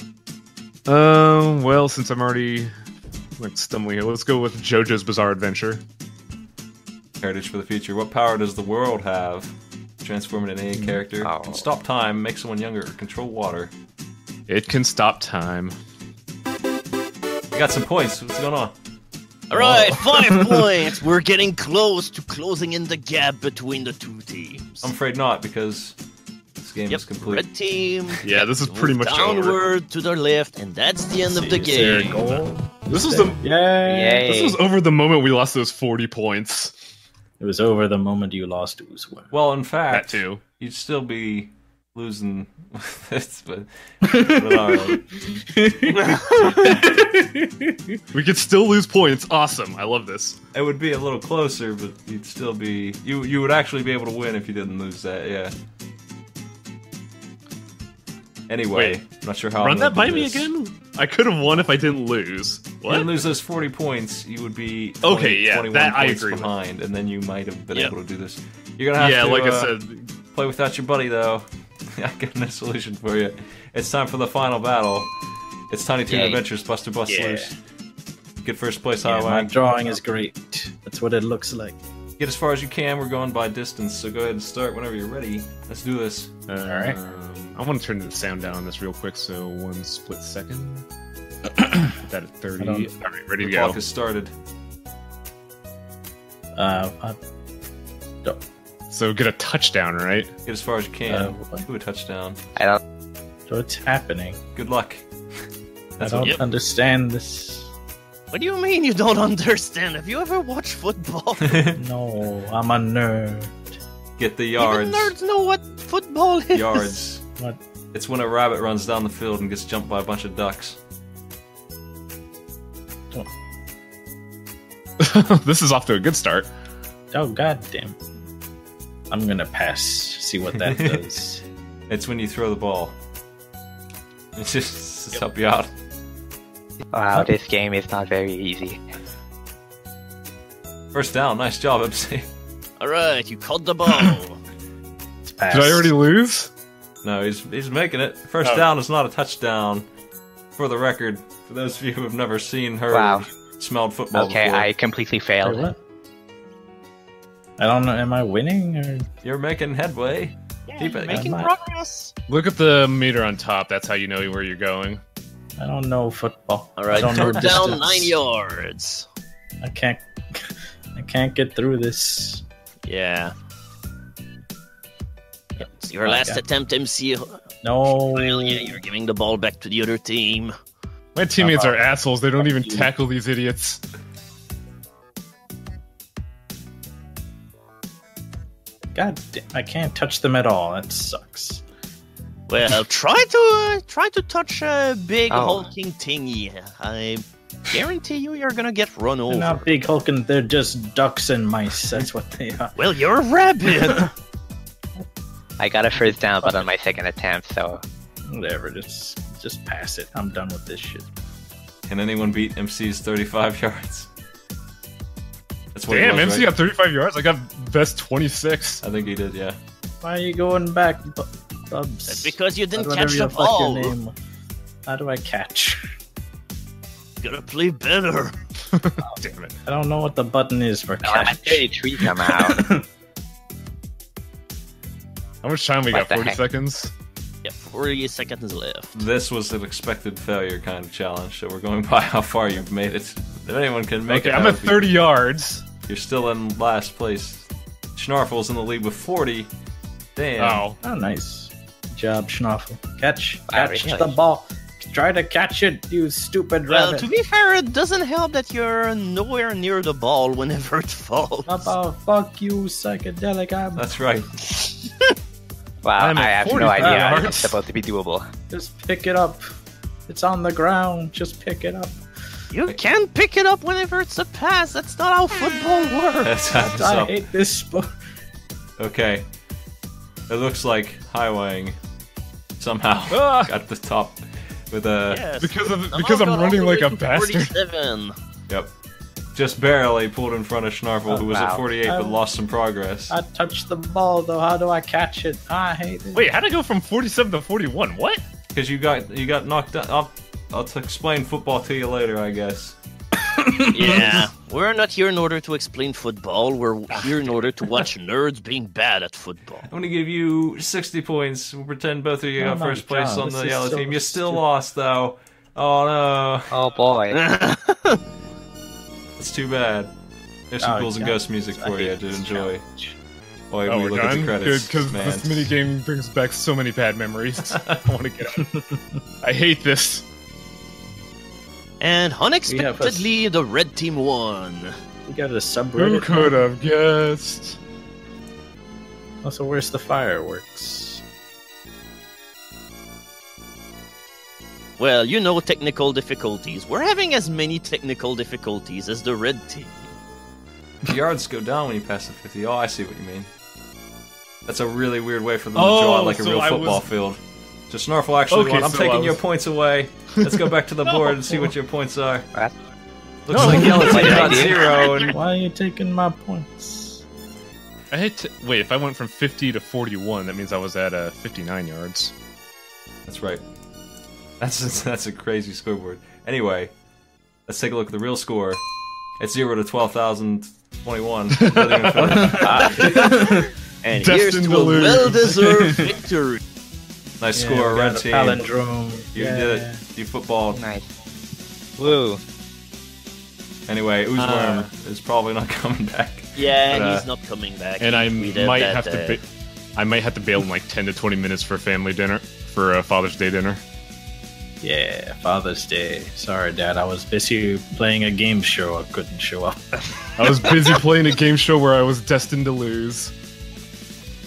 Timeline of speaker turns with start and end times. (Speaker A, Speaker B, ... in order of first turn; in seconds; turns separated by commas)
Speaker A: 0.9-2.7, Speaker A: 3.4-5.8, Speaker B: 7.2-13.7, Speaker C: 11.2-11.7, Speaker A: 14.5-15.8, Speaker B: 17.5-18.7, Speaker D: 19.5-24.9, Speaker E: 19.5-20.6, Speaker B: 24.8-26.0, Speaker B: 26.6-27.4, Speaker D: 26.9-32.4, Speaker A: 28.2-29.6, Speaker E: 31.3-34.3, Speaker A: 32.9-33.4, Speaker C: 33.9-34.6, Speaker A: 34.2-36.7, Speaker E: 37.4-39.3, Speaker B: 39.3-45.0, Speaker A: 39.9-40.4, Speaker E: 44.0-48.0, Speaker A: 48.1-50.4, Speaker B: 50.5-55.5, Speaker B: 58.5-60.5, Speaker A: 58.7-59.0, Speaker A: 59.6-63.1, Speaker B: 62.9-69.8, Speaker A: 65.0-66.5, Speaker A: 68.9-70.1, Speaker B: 70.3-75.1, Speaker B: 75.7-77.6, Speaker C: 76.1-76.4, Speaker E: 77.1-77.5, Speaker B: 78.4-79.5, Speaker E: 79.0-81.8, Speaker B: 82.2-86.4, Speaker A: 86.5-90.8, Speaker E: 86.6-87.0, Speaker E: 91.6-91.9, Speaker A: 92.0-93.8, Speaker E: 92.6-92.9, Speaker B: 93.4-94.3, Speaker E: 96.5-97.2, Speaker A: 98.9-100.3, Speaker B: 100.4-102.4, Speaker E: 101.1-101.7, Speaker E: 103.5-104.4, Speaker B: 104.5-105.1, Speaker B: 106.0-106.4, Speaker E: 106.0-107.7, Speaker D: 108.3-111.6, Speaker B: 111.4-111.8, Speaker E: 111.7-113.6, Speaker B: 114.2-115.1, Speaker D: 114.6-117.0, Speaker B: 116.5-117.2, Speaker B: 117.9-120.8, Speaker A: 125.0-126.5, Speaker E: 127.1-128.0, Speaker E: 129.1-131.4, Speaker B: 130.6-131.0, Speaker B: 131.9-132.9, Speaker B: 134.3-135.7, Speaker C: 136.9-138.8, Speaker B: 140.9-142.2, Speaker D: 142.8-144.4, Speaker E: 145.2-145.9, Speaker A: 145.5-146.5, Speaker B: 147.0-149.8, Speaker B: 150.6-154.7, Speaker C: 152.9-153.3, Speaker C: 154.1-155.7, Speaker E: 155.4-155.8, Speaker E: 157.6-159.1, Speaker B: 159.2-161.3, Speaker D: 160.7-162.1, Speaker E: 161.1-161.5, Speaker A: 162.3-165.0, Speaker E: 165.6-168.2, Speaker D: 166.8-169.1, Speaker E: 169.6-172.4, Speaker D: 172.9-173.3, Speaker D: 175.6-177.4, Speaker E: 176.0-176.4, Speaker E: 177.6-178.8, Speaker D: 177.9-180.5, Speaker A: 181.1-183.8, Speaker E: 181.4-181.8, Speaker E: 182.4-182.9, Speaker E: 188.9-191.6, Speaker D: 192.5-199.7, Speaker C: 195.3-195.7, Speaker E: 199.3-202.8, Speaker D: 202.8-204.1, Speaker C: 205.6-207.8, Speaker E: 208.3-211.1, Speaker B: 211.9-214.1, Speaker B: 215.7-216.5, Speaker A: 215.9-218.8, Speaker B: 218.8-219.6, Speaker E: 220.0-224.1, Speaker D: 222.0-223.9, Speaker E: 224.8-225.9, Speaker D: 227.2-228.4, Speaker A: 228.7-229.6, Speaker E: 229.6-232.8, Speaker C: 231.0-232.7, Speaker A: 235.4-236.9, Speaker C: 235.9-236.4, Speaker D: 237.4-238.9, Speaker B: 238.9-245.0, Speaker A: 244.1-245.7, Speaker B: 245.9-249.5, Speaker B: 250.2-250.7, Speaker A: 250.4-250.8, Speaker E: 250.8-257.1, Speaker C: 253.5-254.2, Speaker D: 256.7-261.7, Speaker E: 261.5-263.9, Speaker B: 263.8-264.3, Speaker C: 265.8-268.3, Speaker A: 265.9-267.6, Speaker E: 266.8-267.2, Speaker E: 268.5-269.4, Speaker E: 270.1-272.0, Speaker D: 272.5-276.3, Speaker B: 276.2-277.2, Speaker E: 276.5-277.9, Speaker B: 278.8-279.2, Speaker B: 280.3-281.8, Speaker B: 282.6-285.3, Speaker A: 283.1-283.5, Speaker D: 285.1-288.1, Speaker A: 285.3-287.5, Speaker B: 289.3-293.1, Speaker E: 291.1-292.2, Speaker C: 291.2-291.6, Speaker E: 293.1-296.3, Speaker A: 296.1-298.2, Speaker B: 298.5-302.8, Speaker E: 303.3-304.2, Speaker D: 303.7-309.7, Speaker B: 309.7-316.6, Speaker E: 312.4-314.4, Speaker C: 316.5-317.2, Speaker D: 317.1-318.0, Speaker B: 319.2-319.9, Speaker B: 320.5-322.6, Speaker E: 320.6-322.9, Speaker B: 323.5-325.5, Speaker A: 323.6-328.5, Speaker B: 327.5-327.8, Speaker E: 328.4-328.8, Speaker A: 329.2-330.0, Speaker D: 331.8-334.7, Speaker E: 332.4-333.1, Speaker E: 335.1-336.4, Speaker A: 335.8-337.6, Speaker E: 339.2-341.0, Speaker D: 344.8-349.9, Speaker B: 350.9-353.3, Speaker B: 354.4-362.3, Speaker A: 355.5-356.9, Speaker A: 358.3-359.2, Speaker A: 360.1-361.2, Speaker B: 363.2-365.2, Speaker A: 363.3-365.1, Speaker E: 363.4-363.7, Speaker C: 363.6-364.6, Speaker E: 365.1-367.0, Speaker A: 367.9-372.1, Speaker B: 373.1-373.4, Speaker B: 374.4-376.7, Speaker B: 377.5-378.6, Speaker B: 379.2-382.9, Speaker A: 381.3-382.9, Speaker E: 382.0-383.5, Speaker C: 382.4-382.9, Speaker D: 383.8-386.4, Speaker A: 383.9-385.4, Speaker B: 387.2-388.4, Speaker E: 387.3-389.8, Speaker B: 389.1-390.6, Speaker C: 390.5-390.9, Speaker C: 391.8-392.2, Speaker B: 393.7-396.4, Speaker A: 394.1-394.7, Speaker D: 396.4-399.2, Speaker A: 396.7-397.1, Speaker A: 397.8-399.2, Speaker A: 399.8-403.6, Speaker E: 404.6-409.8, Speaker A: 410.2-413.1